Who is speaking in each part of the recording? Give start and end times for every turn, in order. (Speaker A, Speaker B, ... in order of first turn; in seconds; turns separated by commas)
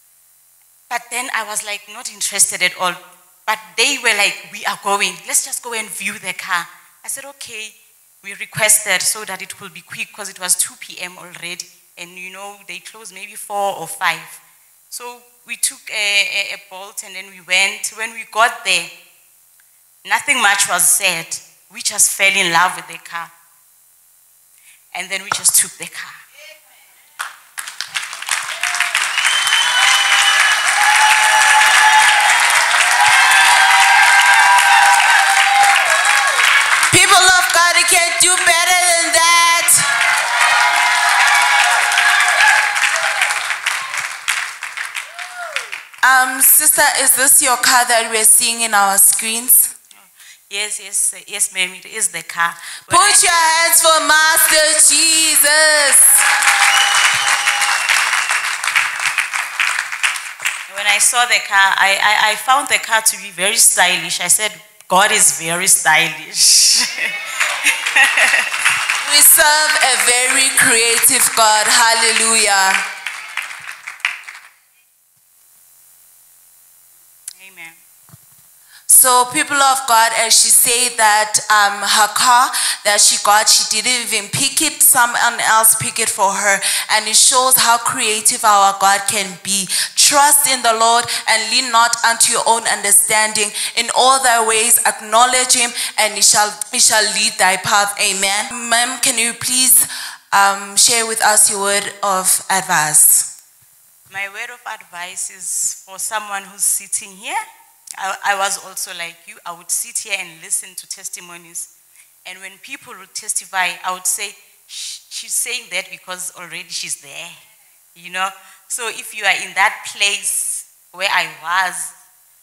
Speaker A: 0.9-18.9, Speaker A: 20.1-23.3, Speaker A: 24.9-26.2, Speaker B: 36.9-39.9, Speaker B: 46.0-49.7, Speaker A: 50.0-53.2, Speaker B: 52.9-56.2, Speaker A: 60.7-68.5, Speaker B: 69.0-72.8, Speaker A: 77.4-77.8, Speaker B: 78.9-103.3, Speaker A: 104.1-107.4, Speaker A: 108.0-111.7, Speaker A: 112.2-117.4, Speaker A: 118.0-121.9